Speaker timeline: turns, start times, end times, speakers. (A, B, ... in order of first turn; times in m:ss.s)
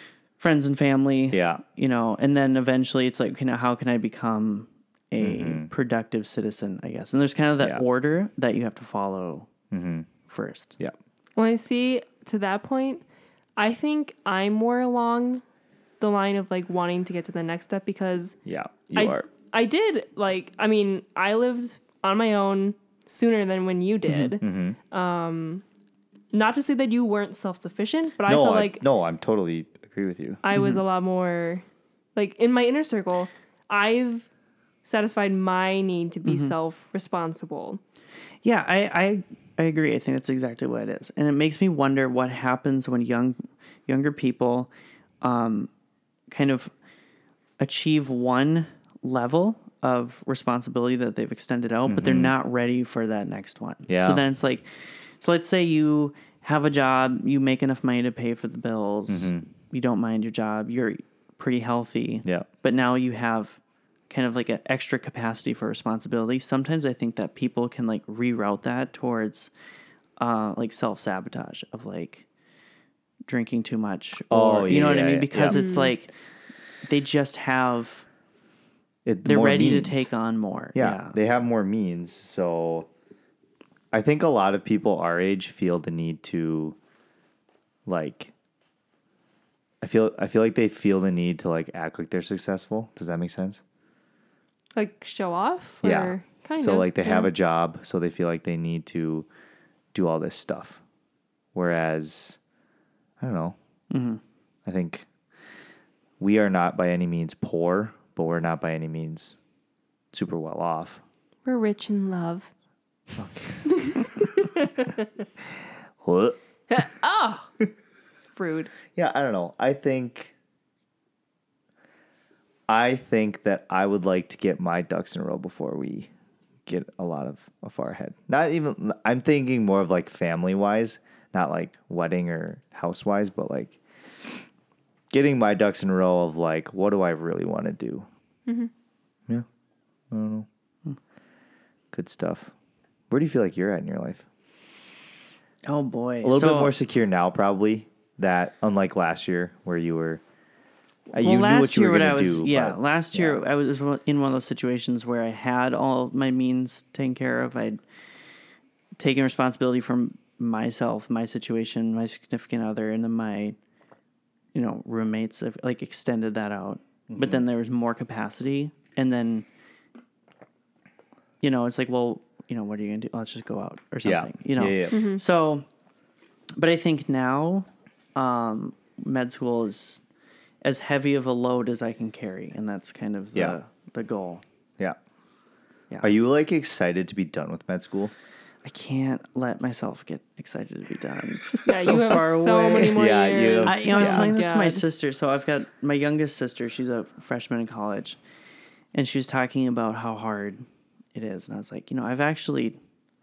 0:00.4-0:09.5 A
0:01.3-0:01.6 B
0:05.2-0:05.7 B
0:09.7-0:10.1 B
0:10.3-0:10.8 A
0:11.4-0:13.0 C
0:13.6-0:15.4 C
0:16.0-0:18.4 C
0:18.4-0:19.3 B
0:19.0-0:25.6 C
0:24.1-0:24.4 A
0:24.4-0:24.8 B
0:26.3-0:28.8 C
0:28.2-0:30.4 B
0:30.4-0:31.6 C
0:30.5-0:30.8 A
0:32.1-0:34.3 C
0:34.8-0:37.8 C
0:36.3-0:36.6 A
0:38.4-0:44.7 A
0:45.2-0:45.7 A
0:46.3-0:46.7 A
0:47.6-1:03.6 A
0:51.9-0:52.3 B
0:53.9-0:54.2 B
0:59.1-0:59.4 B
1:04.1-1:09.5 A
1:10.2-1:12.2 A
1:13.3-1:16.1 A
1:14.3-1:15.6 B
1:15.5-1:16.0 C
1:16.8-1:18.1 A
1:19.0-1:20.1 B
1:19.3-1:21.2 A
1:20.7-1:22.9 B
1:23.9-1:26.8 B
1:27.9-1:28.3 B
1:29.8-1:33.6 B
1:34.8-1:37.3 C
1:35.8-1:39.3 B
1:39.9-1:40.8 B
1:41.6-1:42.4 B
1:43.2-1:43.6 B
1:43.9-1:44.2 A
1:44.6-1:45.1 B
1:46.2-1:49.4 B
1:50.1-1:51.0 B
1:51.4-1:52.5 C
1:53.2-1:54.1 B
1:53.7-1:55.1 C
1:56.0-1:56.4 B
1:56.7-1:57.5 C
1:58.2-1:58.7 C
1:58.9-2:00.3 B
2:02.7-2:06.1 B
2:06.7-2:14.4 B
2:15.1-2:18.1 B
2:20.1-2:20.5 B
2:21.9-2:22.5 B
2:23.1-2:24.2 B
2:25.7-2:26.7 A
2:26.2-2:30.2 B
2:31.1-2:37.8 A
2:31.1-2:33.4 B
2:39.0-2:43.6 A
2:44.5-2:49.4 A
2:47.1-2:47.4 B
2:51.4-2:55.7 A
2:54.0-2:55.0 B
2:54.9-2:55.2 C
2:56.6-3:00.0 A
3:00.6-3:04.4 A
3:06.0-3:08.1 B
3:08.6-3:13.0 A
3:11.7-3:14.8 C
3:12.8-3:14.4 B
3:13.6-3:18.2 A
3:18.9-3:20.6 A
3:21.1-3:22.8 A